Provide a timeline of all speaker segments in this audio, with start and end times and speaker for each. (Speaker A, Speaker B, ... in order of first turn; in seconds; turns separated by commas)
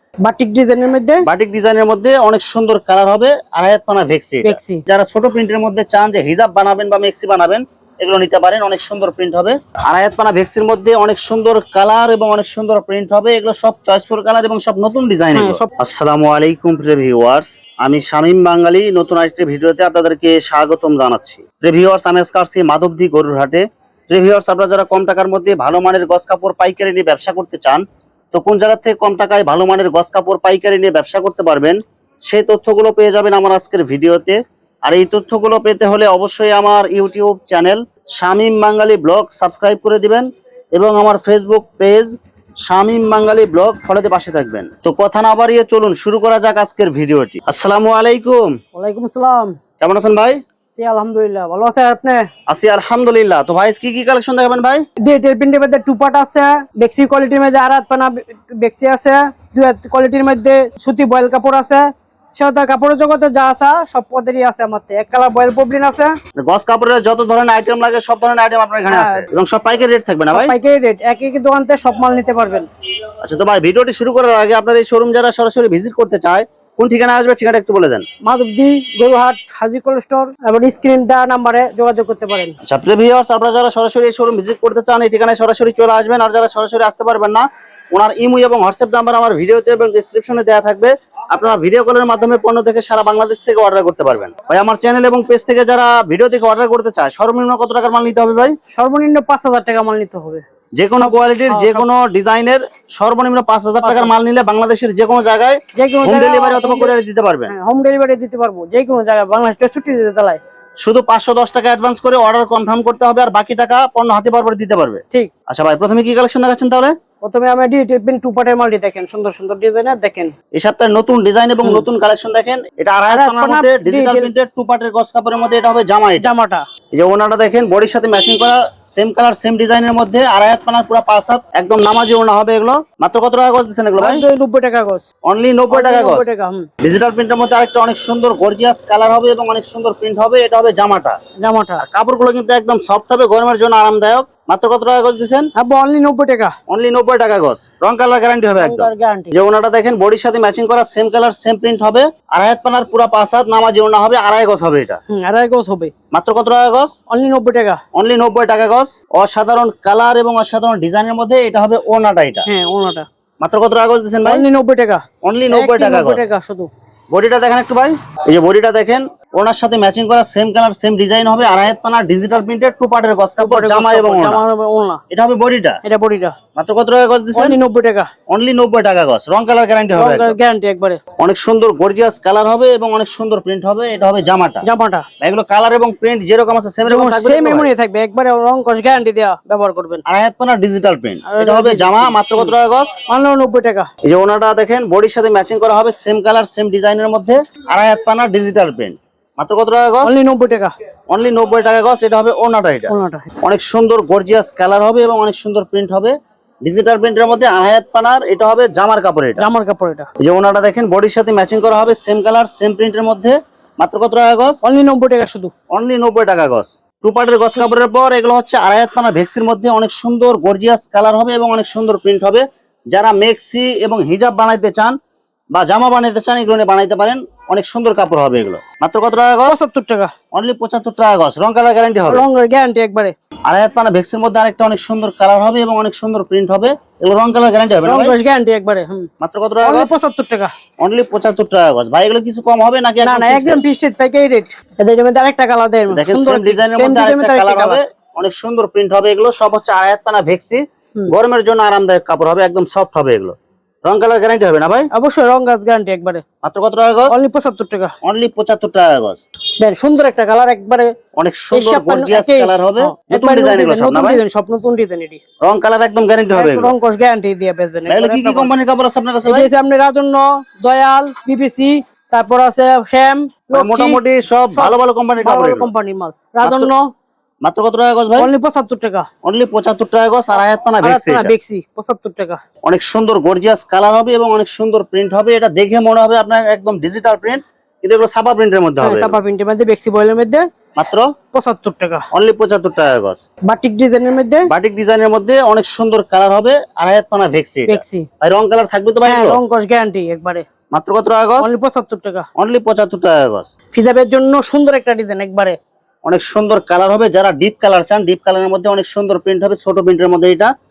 Speaker A: 0.2-1.2, Speaker B: 1.2-31.8, Speaker A: 4.4-4.8, Speaker A: 15.3-15.7, Speaker B: 32.3-42.1, Speaker B: 42.7-48.5, Speaker A: 48.8-49.6, Speaker B: 49.8-50.4, Speaker A: 50.7-52.2, Speaker B: 52.5-54.8, Speaker A: 55.0-66.1, Speaker B: 66.4-70.5, Speaker A: 68.9-69.3, Speaker A: 70.3-72.7, Speaker B: 73.2-78.0, Speaker A: 78.2-82.5, Speaker B: 82.7-98.6, Speaker A: 98.7-100.4, Speaker B: 100.8-107.5, Speaker A: 101.0-101.9, Speaker A: 103.8-104.1, Speaker A: 105.8-106.9, Speaker A: 107.5-110.4, Speaker B: 110.8-116.9, Speaker A: 117.2-120.3, Speaker B: 120.5-126.3, Speaker A: 123.1-124.3, Speaker A: 126.2-126.6, Speaker B: 126.9-134.2, Speaker A: 134.0-135.0, Speaker B: 135.3-136.3, Speaker A: 135.7-136.7, Speaker B: 136.8-141.2, Speaker A: 141.4-141.8, Speaker B: 141.8-145.5, Speaker A: 145.6-146.6, Speaker B: 146.7-155.0, Speaker A: 148.6-149.4, Speaker A: 155.1-155.9, Speaker B: 156.1-157.0, Speaker A: 157.1-157.8, Speaker B: 157.9-162.5, Speaker A: 162.5-163.1, Speaker B: 163.4-164.4, Speaker A: 164.2-166.7, Speaker B: 165.2-166.3, Speaker B: 167.1-174.4, Speaker A: 173.4-175.0, Speaker B: 175.1-175.8, Speaker A: 175.8-176.4, Speaker B: 176.6-177.6, Speaker A: 177.3-178.1, Speaker B: 178.3-180.3, Speaker A: 179.9-181.0, Speaker B: 181.2-184.6, Speaker A: 184.6-185.1, Speaker B: 185.2-187.7, Speaker A: 186.9-190.0, Speaker B: 190.1-192.9, Speaker A: 191.3-192.5, Speaker A: 193.1-193.9, Speaker B: 194.1-200.2, Speaker A: 200.0-200.7, Speaker B: 201.1-209.4, Speaker A: 202.9-203.3, Speaker A: 209.4-210.1, Speaker B: 210.2-214.6, Speaker A: 214.6-215.5, Speaker B: 215.7-224.9, Speaker B: 225.5-229.6, Speaker A: 229.5-230.1, Speaker B: 230.3-232.2, Speaker A: 232.1-233.2, Speaker B: 233.5-238.2, Speaker A: 237.8-239.1, Speaker B: 239.2-239.9, Speaker A: 239.6-240.5, Speaker B: 240.8-243.6, Speaker A: 243.0-247.8, Speaker B: 245.9-254.9, Speaker A: 254.9-256.2, Speaker B: 256.4-257.2, Speaker A: 257.1-257.9, Speaker B: 258.0-259.2, Speaker A: 259.6-260.9, Speaker B: 261.2-264.2, Speaker A: 261.5-265.2, Speaker B: 265.4-266.8, Speaker A: 266.3-268.5, Speaker B: 267.9-269.5, Speaker A: 269.3-274.0, Speaker B: 273.5-275.7, Speaker A: 274.5-276.9, Speaker B: 276.4-276.7, Speaker B: 277.4-278.3, Speaker A: 278.2-279.1, Speaker B: 279.2-281.3, Speaker A: 280.8-282.4, Speaker B: 282.7-289.2, Speaker A: 288.8-290.5, Speaker B: 290.8-291.1, Speaker A: 291.3-292.1, Speaker B: 292.1-293.2, Speaker A: 293.5-294.5, Speaker B: 294.5-299.4, Speaker A: 297.7-298.1, Speaker A: 299.1-300.5, Speaker B: 300.7-301.5, Speaker A: 301.4-302.3, Speaker B: 302.4-303.5, Speaker A: 303.7-305.6, Speaker B: 306.1-310.5